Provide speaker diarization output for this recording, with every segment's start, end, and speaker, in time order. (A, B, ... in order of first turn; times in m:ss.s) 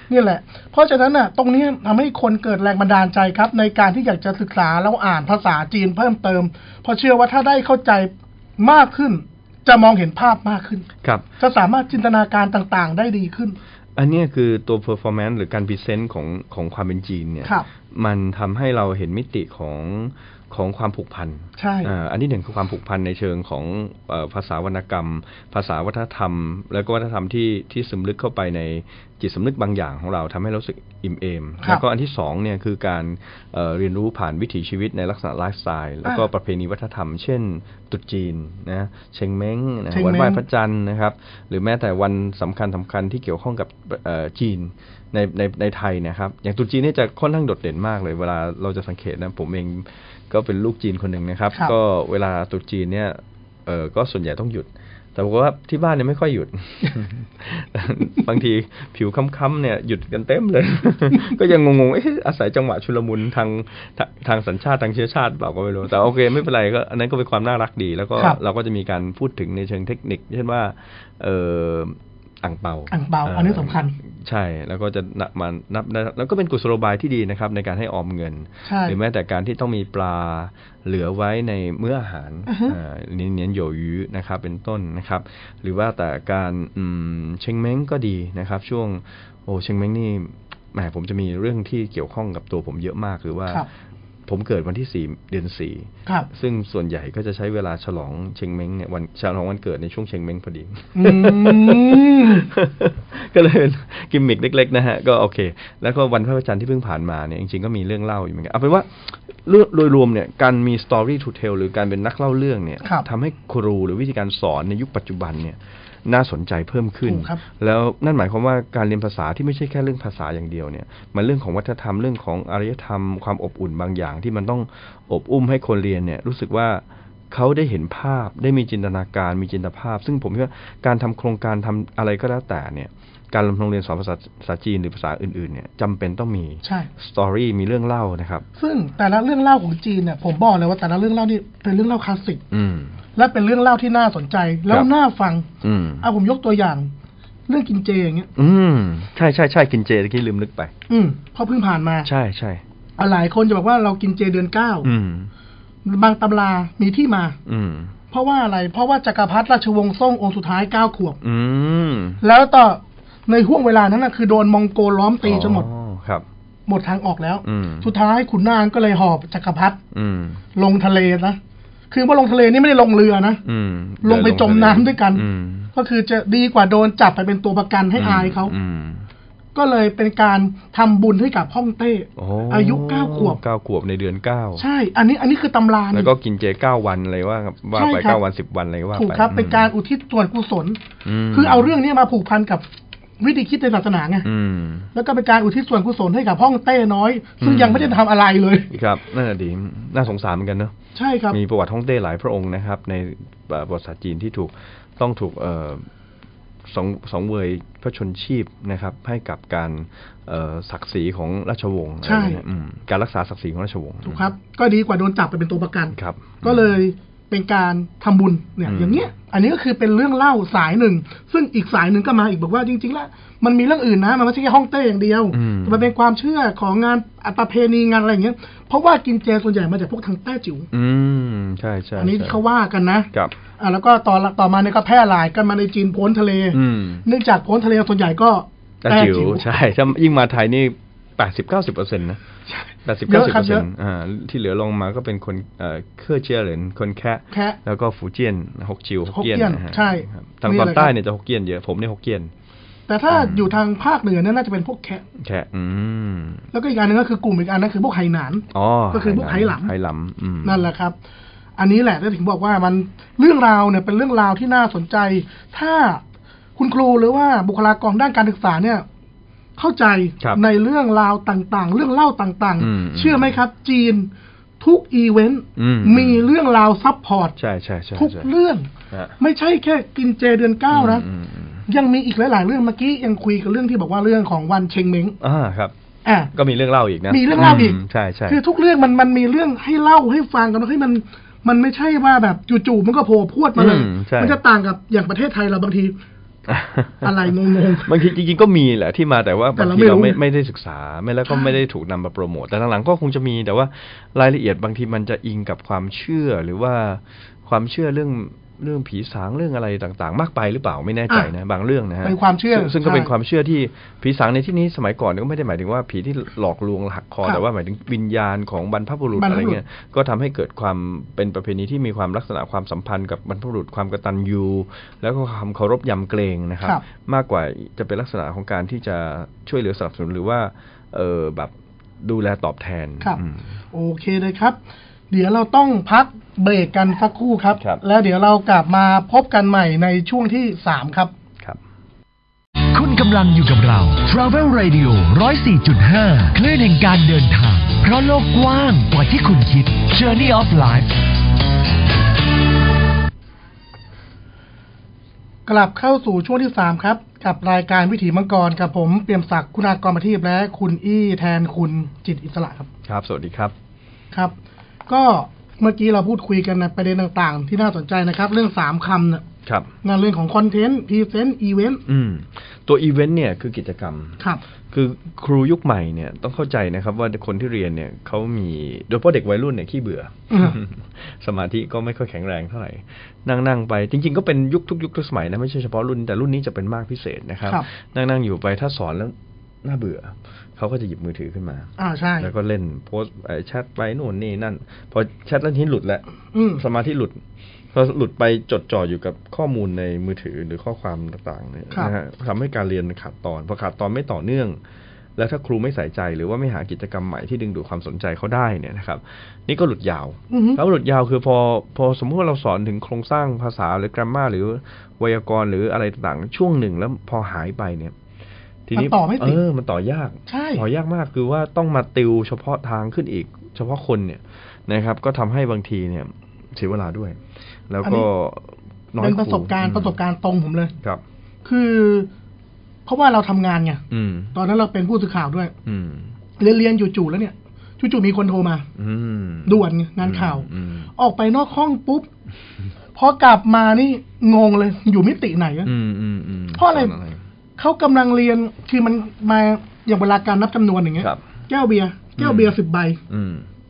0:00.1-0:10.9 A
0:11.4-0:13.6 A
0:14.0-1:33.7 B
0:21.6-0:21.9 A
0:39.9-0:40.4 A
1:12.9-1:14.0 A
1:18.6-1:19.0 A
1:22.5-1:22.8 A
1:34.3-2:18.4 B
1:41.0-1:42.5 A
1:57.0-1:57.4 A
2:16.6-2:16.9 A
2:18.6-2:22.4 A
2:22.5-2:23.0 B
2:23.2-2:25.5 A
2:25.6-2:26.1 B
2:26.0-2:26.9 A
2:27.5-2:28.3 A
2:28.4-2:30.7 B
2:30.9-2:32.1 A
2:32.0-2:32.6 B
2:33.0-2:34.9 A
2:34.8-2:35.3 B
2:35.8-2:37.4 A
2:37.5-2:38.0 B
2:38.1-2:41.2 A
2:41.2-2:42.2 B
2:42.2-2:45.7 A
2:45.2-2:46.2 B
2:46.7-2:49.8 A
2:47.4-2:47.9 B
2:49.9-2:50.4 B
2:50.6-2:51.4 A
2:51.9-2:53.4 A
2:53.4-2:55.7 B
2:54.0-2:55.2 A
2:55.8-2:58.5 A
2:58.0-2:59.1 B
2:59.6-3:03.4 A
3:02.2-3:04.6 B
3:04.6-3:06.1 A
3:05.9-3:09.7 B
3:07.8-3:08.2 A
3:08.9-3:10.8 A
3:11.0-3:11.7 B
3:11.3-3:12.6 A
3:13.2-3:14.3 A
3:14.2-3:14.9 B
3:15.0-3:18.7 A
3:17.4-3:18.0 B
3:18.7-3:20.7 B
3:21.0-3:21.4 A
3:21.3-3:25.9 B
3:26.7-3:34.3 B
3:32.0-3:32.4 A
3:34.0-3:50.7 A
3:35.9-3:36.8 B
3:38.7-3:39.1 B
3:45.3-3:45.9 B
3:50.7-3:52.4 B
3:52.0-3:59.5 A
3:56.5-3:57.0 B
3:58.8-4:02.2 B
4:02.5-4:03.7 A
4:02.8-4:12.3 B
4:07.3-4:07.6 A
4:09.1-4:10.9 A
4:12.9-4:15.0 A
4:13.1-4:13.5 B
4:15.2-4:16.4 B
4:16.5-4:19.7 A
4:18.5-4:20.7 B
4:20.4-4:21.0 A
4:21.6-4:26.0 A
4:26.6-4:28.9 A
4:29.6-4:37.4 A
4:32.6-4:33.4 B
4:35.6-4:36.3 B
4:37.4-4:38.3 B
4:38.0-4:41.1 A
4:40.7-4:41.7 B
4:41.7-4:45.2 A
4:45.2-4:45.7 B
4:46.0-4:46.3 A
4:46.3-4:48.4 B
4:47.1-4:56.0 A
4:53.6-4:54.4 B
4:56.5-5:33.5 B
4:57.0-4:58.0 A
4:59.6-5:00.2 A
5:01.3-5:01.6 A
5:12.0-5:13.1 A
5:19.2-5:19.6 A
5:33.7-5:34.6 A
5:35.1-5:41.1 A
5:37.6-5:37.8 B
5:42.7-5:51.0 C
5:55.5-6:02.7 A
6:02.9-6:03.5 B
6:04.9-6:09.2 A
6:09.4-6:09.7 B
6:09.8-6:11.8 A
6:11.9-6:36.0 B
6:20.3-6:20.6 A
6:31.8-6:32.3 A
6:36.3-6:36.6 A
6:36.6-6:37.2 B
6:37.7-6:44.6 B
6:45.2-6:57.9 B
6:50.3-6:50.6 A
6:58.7-7:07.2 B
6:58.8-6:59.4 A
7:00.3-7:00.6 A
7:07.7-7:10.0 B
7:09.0-7:10.7 A
7:11.4-7:12.1 A
7:12.9-7:13.8 A
7:13.9-7:14.4 B
7:14.3-7:15.5 A
7:15.6-7:16.1 B
7:16.4-7:18.7 A
7:18.8-7:20.9 B
7:19.5-7:22.1 A
7:23.0-7:25.7 A
7:25.6-7:27.2 B
7:26.6-7:26.9 A
7:27.6-7:33.0 A
7:32.2-7:32.6 B
7:33.1-7:33.5 B